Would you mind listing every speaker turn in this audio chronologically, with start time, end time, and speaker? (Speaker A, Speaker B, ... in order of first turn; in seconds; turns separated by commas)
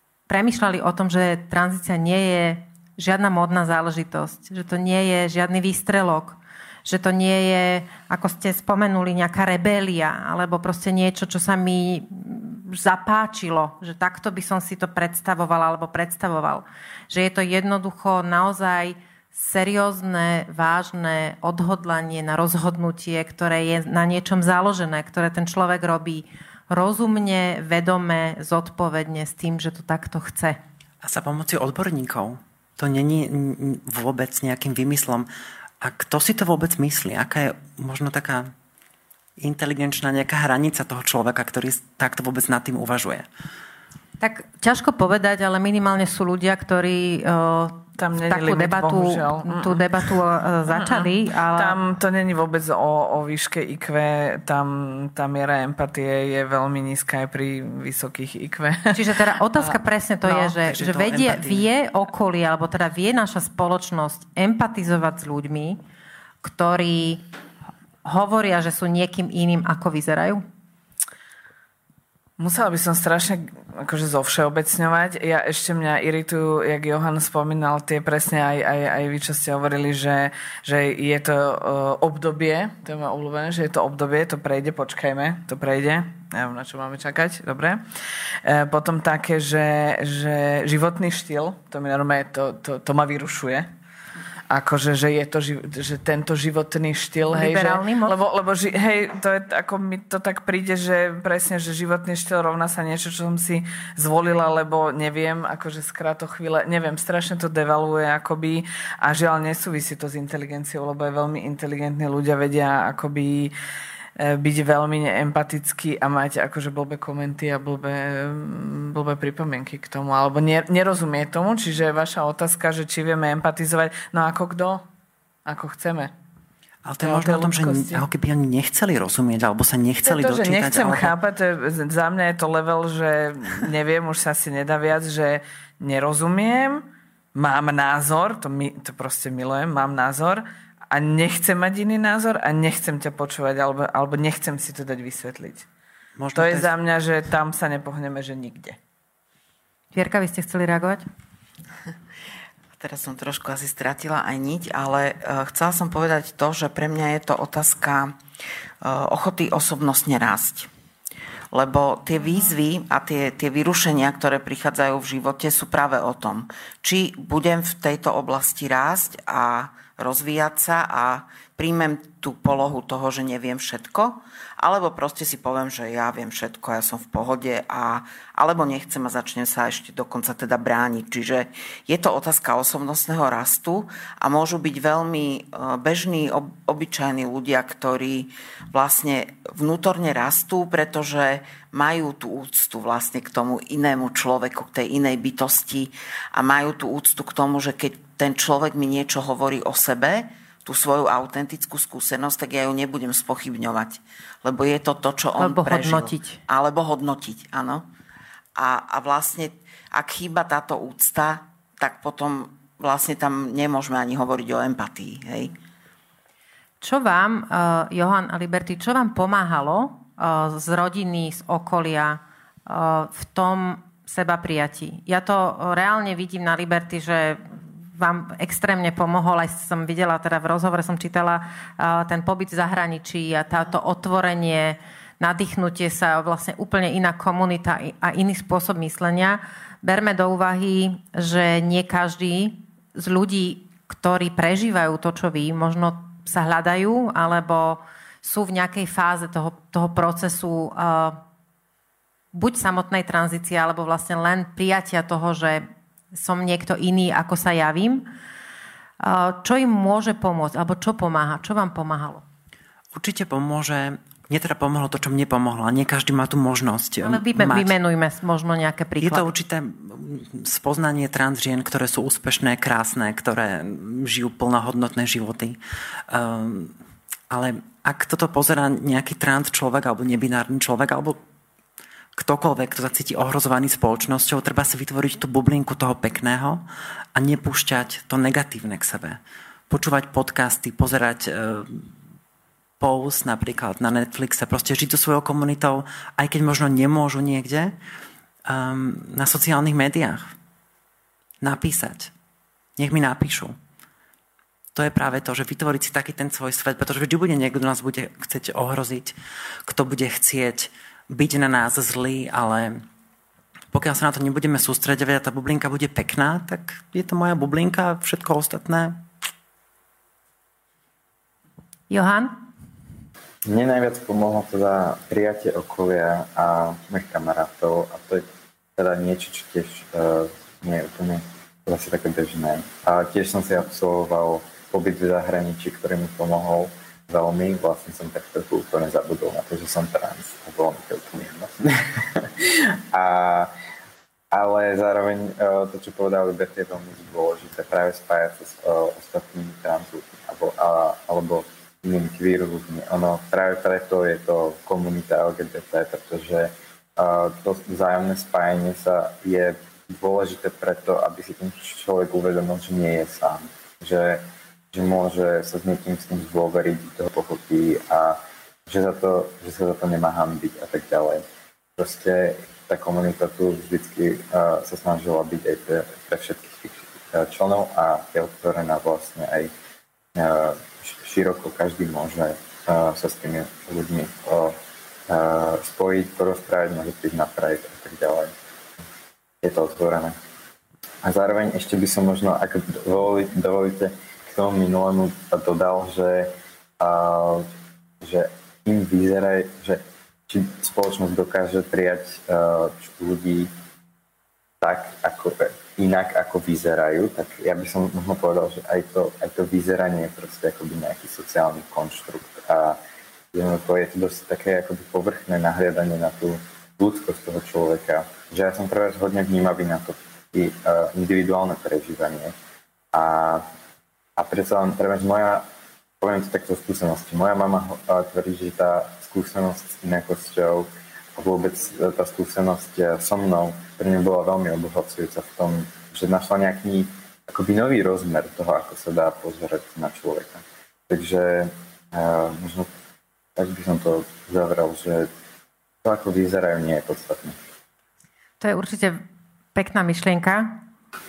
Speaker A: 0.3-30.6, Speaker B: 31.0-35.3, Speaker B: 35.8-38.5, Speaker B: 39.4-43.2, Speaker A: 44.2-51.8, Speaker C: 48.0-50.0, Speaker C: 50.7-59.1, Speaker A: 58.9-65.8, Speaker B: 60.3-61.7, Speaker A: 66.4-67.2, Speaker A: 68.0-70.4, Speaker C: 72.4-87.8, Speaker C: 88.4-93.7, Speaker C: 94.5-113.5, Speaker A: 97.3-98.2, Speaker C: 114.2-124.8, Speaker C: 125.5-126.1, Speaker B: 126.8-131.2, Speaker C: 127.0-128.0, Speaker C: 130.0-145.7, Speaker B: 146.2-146.7, Speaker C: 146.3-148.8, Speaker A: 149.9-151.0, Speaker D: 152.8-158.2, Speaker D: 158.8-160.7, Speaker D: 161.5-207.8, Speaker A: 205.4-206.4, Speaker D: 208.6-215.5, Speaker A: 216.8-251.2, Speaker A: 252.3-258.1, Speaker A: 259.0-262.2, Speaker B: 262.9-267.8, Speaker A: 267.0-269.3, Speaker B: 269.0-276.7, Speaker B: 277.3-281.2, Speaker B: 282.2-286.6, Speaker B: 287.1-289.2, Speaker B: 289.7-291.9, Speaker B: 292.8-297.7, Speaker B: 298.5-300.3, Speaker B: 301.4-302.1, Speaker B: 302.8-303.5, Speaker B: 304.7-312.8, Speaker B: 313.7-319.0, Speaker A: 321.9-322.4, Speaker E: 323.4-328.2, Speaker E: 328.8-343.5, Speaker E: 344.3-371.2, Speaker E: 371.8-379.5, Speaker E: 380.1-384.5, Speaker E: 385.1-388.3, Speaker E: 389.4-390.1, Speaker E: 391.0-397.5, Speaker E: 398.0-403.5, Speaker E: 404.6-412.8, Speaker E: 413.3-422.3, Speaker E: 422.9-423.4, Speaker E: 424.2-425.4, Speaker E: 426.0-442.7, Speaker E: 443.4-445.1, Speaker E: 445.8-447.4, Speaker A: 448.4-449.0, Speaker A: 449.5-450.6